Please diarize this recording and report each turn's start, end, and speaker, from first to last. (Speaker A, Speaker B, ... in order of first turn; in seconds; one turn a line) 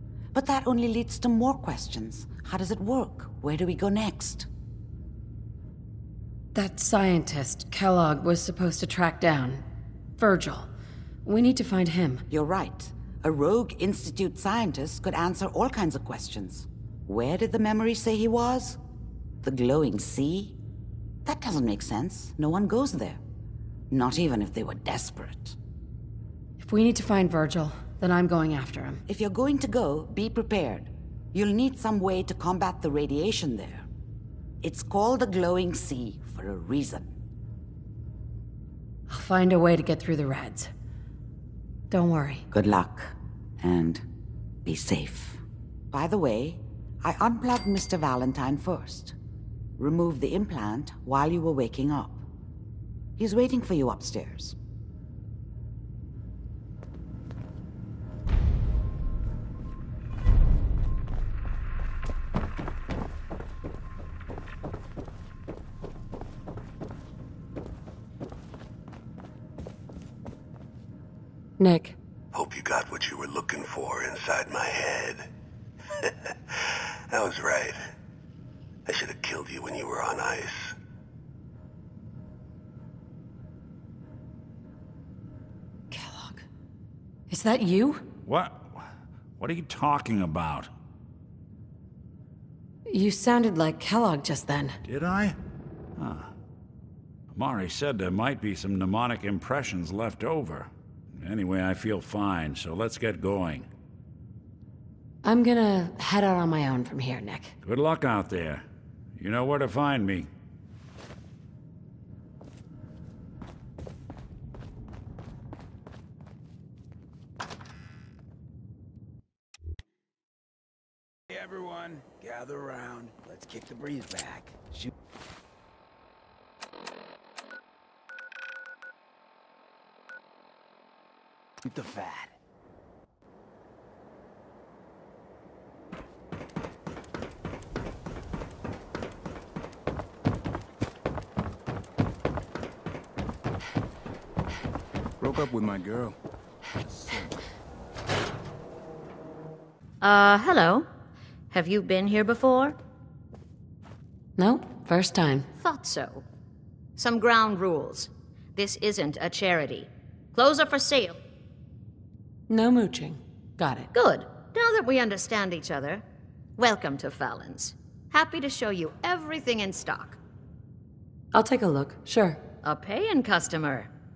Speaker A: 0.3-4.5
Speaker B: 6.5-9.6
Speaker B: 10.2-10.7
Speaker B: 11.2-12.2
Speaker A: 12.3-18.8
Speaker A: 19.4-20.6
Speaker A: 21.2-23.2
Speaker A: 23.9-25.6
Speaker B: 26.6-29.0
Speaker A: 29.1-33.9
Speaker A: 34.6-37.1
Speaker B: 39.1-40.7
Speaker B: 41.9-42.5
Speaker A: 42.5-44.0
Speaker A: 44.6-45.4
Speaker A: 45.9-49.1
Speaker A: 49.8-52.2
Speaker A: 53.2-54.6
Speaker B: 71.6-72.0
Speaker C: 72.3-75.2
Speaker C: 77.1-77.8
Speaker C: 78.9-80.7
Speaker B: 85.9-86.4
Speaker B: 87.3-88.0
Speaker D: 88.2-88.8
Speaker D: 89.4-90.7
Speaker B: 92.9-94.8
Speaker D: 94.8-95.4
Speaker D: 96.0-96.3
Speaker D: 97.3-103.7
Speaker B: 105.2-107.5
Speaker D: 107.6-108.6
Speaker D: 109.2-110.3
Speaker E: 121.3-124.6
Speaker E: 131.7-132.3
Speaker E: 145.2-146.1
Speaker F: 150.0-150.9
Speaker F: 151.5-152.8
Speaker B: 154.4-155.5
Speaker F: 155.6-156.2
Speaker F: 157.0-161.2
Speaker B: 162.5-163.9
Speaker F: 163.9-166.0
Speaker F: 166.6-170.2
Speaker B: 171.3-172.4
Speaker F: 172.6-173.9